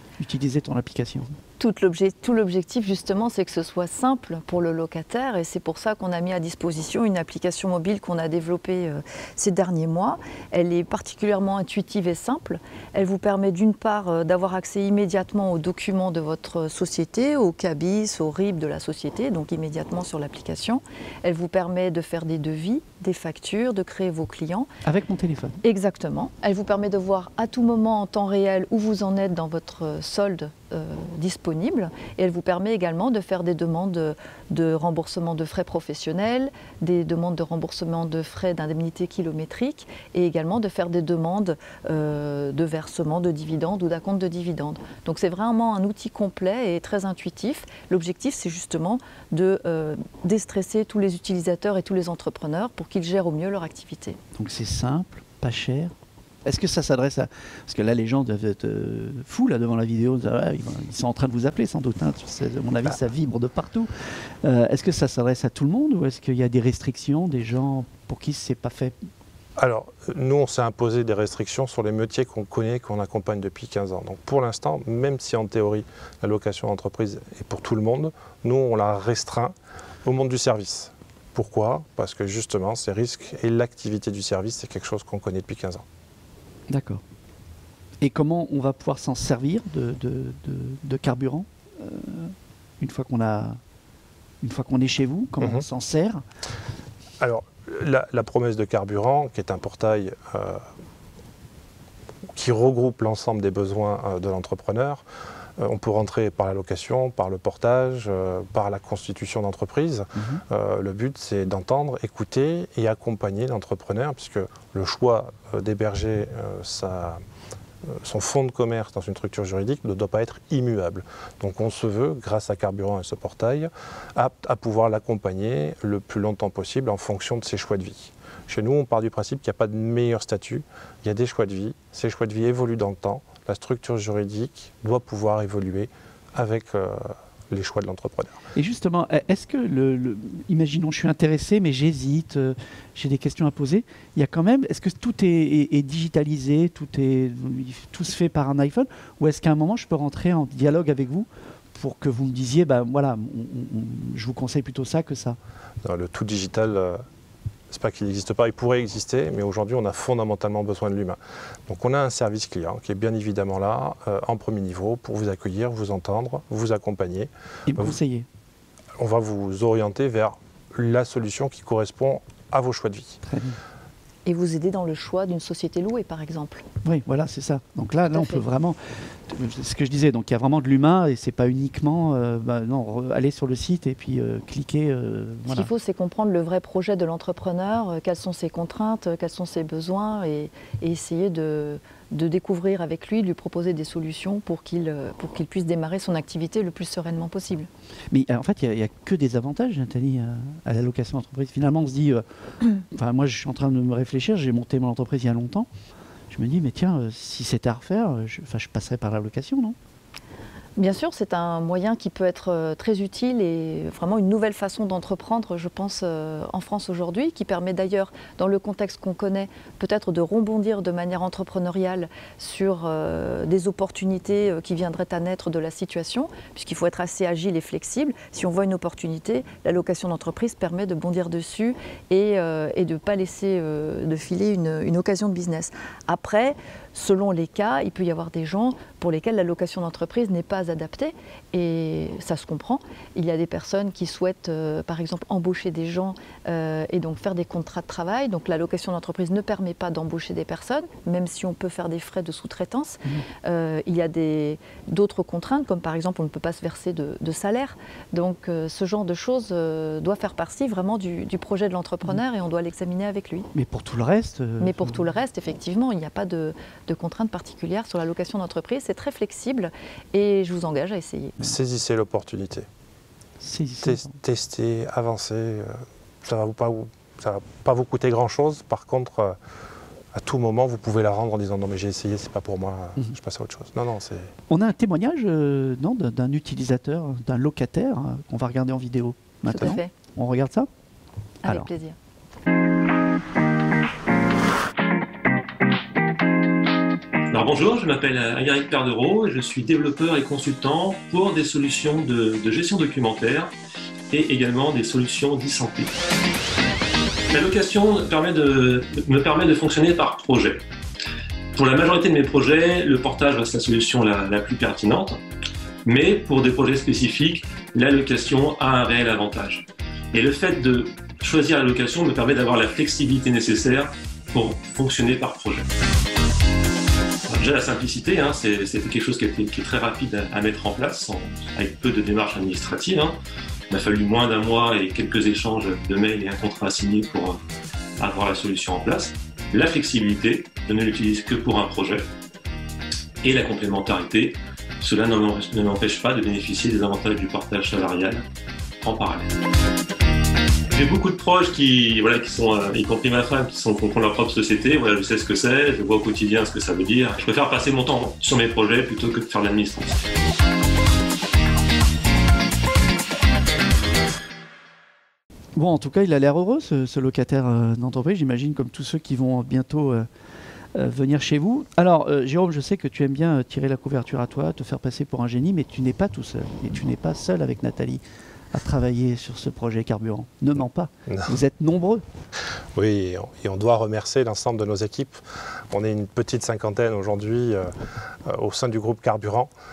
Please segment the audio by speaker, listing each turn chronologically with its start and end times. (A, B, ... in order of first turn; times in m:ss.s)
0:00.2-0:01.4 A
0:01.6-0:24.7 B
0:24.8-0:25.6 A
0:25.6-0:54.2 B
0:54.4-0:55.9 A
0:56.4-1:09.0 A
1:09.6-1:25.8 C
1:26.7-1:27.0 A
1:28.0-1:33.6 A
1:34.4-1:36.2 A
1:37.2-1:40.6 C
1:42.3-1:45.0 C
1:45.6-1:57.2 C
1:50.2-1:50.4 A
1:57.8-2:18.4 C
2:18.6-2:35.4 A
2:35.8-2:37.0 C
2:37.7-2:48.0 C
2:47.7-2:48.3 A
2:49.0-2:53.2 C
2:53.2-2:53.6 A
2:54.3-2:56.6 B
2:56.8-3:05.7 A
2:58.1-2:58.4 B
3:05.5-3:17.7 B
3:18.1-3:22.2 A
3:22.8-3:25.7 A
3:26.3-3:29.8 A
3:30.8-4:23.5 B
4:23.5-4:25.0 A
4:24.6-4:31.5 B
4:31.4-4:32.7 C
4:33.4-4:34.2 A
4:33.8-4:39.4 C
4:40.1-4:44.3 C
4:44.5-4:50.7 A
4:49.5-4:49.9 B
4:51.4-4:52.0 B
4:57.3-5:03.5 D
5:04.1-5:05.9 D
5:07.3-5:10.6 D
5:11.5-5:15.2 D
5:15.9-5:25.7 D
5:27.3-5:33.2 D
5:33.7-5:37.4 D
5:38.0-5:42.1 D
5:43.2-5:48.2 D
5:48.8-5:49.3 D
5:50.7-6:00.0 D
6:05.6-6:10.1 A
6:10.8-6:18.0 A
6:18.5-6:22.0 A
6:21.1-6:21.3 C
6:22.8-6:29.5 C